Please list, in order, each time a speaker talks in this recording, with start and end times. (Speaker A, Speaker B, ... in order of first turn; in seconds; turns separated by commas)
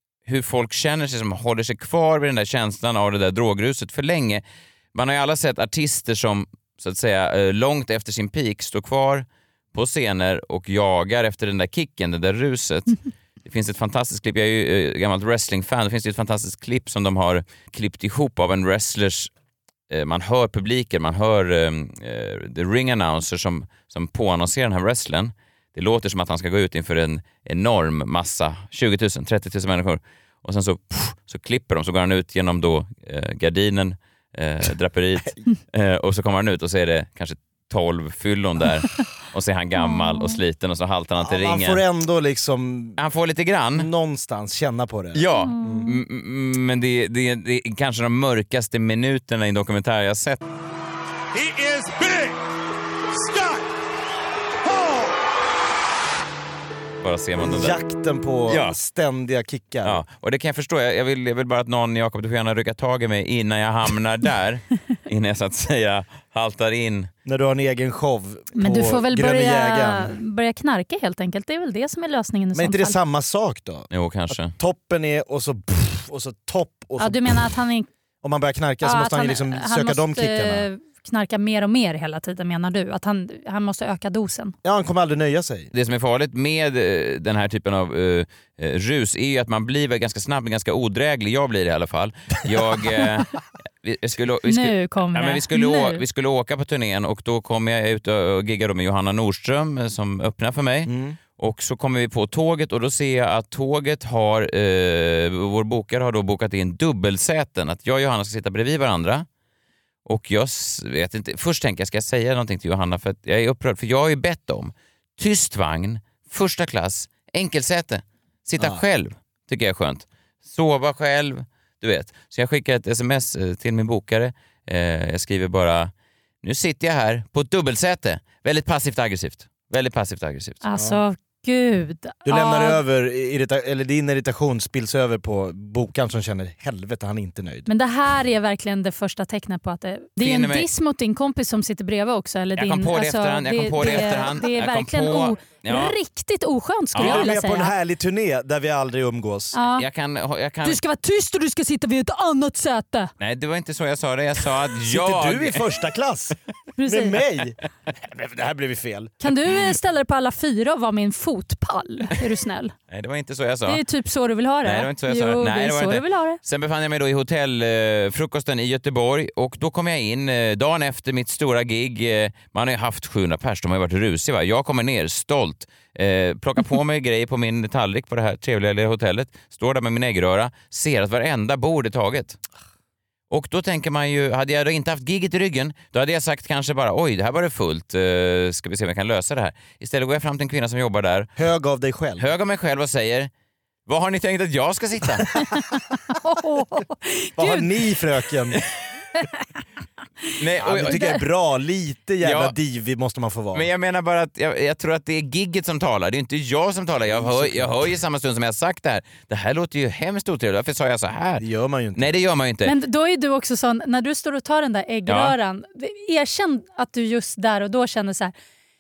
Speaker A: 0.2-4.4, Speaker A: 4.9-19.3, Speaker A: 19.9-41.8, Speaker B: 39.8-40.4, Speaker C: 41.2-43.0, Speaker A: 43.0-43.9, Speaker C: 43.7-45.9, Speaker A: 45.1-50.4, Speaker B: 45.4-46.0, Speaker C: 51.4-52.2, Speaker A: 57.0-57.8, Speaker C: 57.4-60.0, Speaker A: 58.5-58.8, Speaker A: 59.8-67.1, Speaker C: 67.2-70.2, Speaker B: 68.5-73.0, Speaker C: 72.5-73.9, Speaker A: 73.9-74.5, Speaker C: 74.4-77.4, Speaker B: 77.0-77.9, Speaker C: 78.2-80.7, Speaker B: 78.8-84.5, Speaker C: 84.6-85.7, Speaker A: 85.7-109.2, Speaker B: 94.5-96.0, Speaker C: 100.9-101.2, Speaker A: 110.0-125.9, Speaker A: 126.4-130.6, Speaker B: 130.6-132.8, Speaker C: 130.7-131.0, Speaker C: 132.2-137.7, Speaker B: 137.7-147.7, Speaker A: 140.2-140.7, Speaker A: 142.6-145.9, Speaker A: 146.9-147.3, Speaker C: 146.9-149.6, Speaker B: 149.5-149.8, Speaker A: 149.8-150.8, Speaker B: 150.6-153.1, Speaker A: 153.2-155.6, Speaker C: 154.9-159.2, Speaker B: 156.8-157.2, Speaker B: 159.2-162.7, Speaker A: 162.9-163.8, Speaker B: 163.7-166.4, Speaker A: 164.6-182.4, Speaker A: 183.3-191.3, Speaker C: 191.4-192.2, Speaker A: 192.2-193.3, Speaker A: 193.9-195.4, Speaker B: 195.4-197.7, Speaker C: 197.4-198.6, Speaker B: 199.2-199.5, Speaker A: 200.4-201.1, Speaker C: 200.6-203.7, Speaker B: 200.7-201.2, Speaker A: 202.2-202.5, Speaker A: 203.5-211.4, Speaker C: 207.2-207.8, Speaker C: 211.4-212.1, Speaker A: 211.9-212.7, Speaker B: 212.6-218.3, Speaker A: 215.1-215.3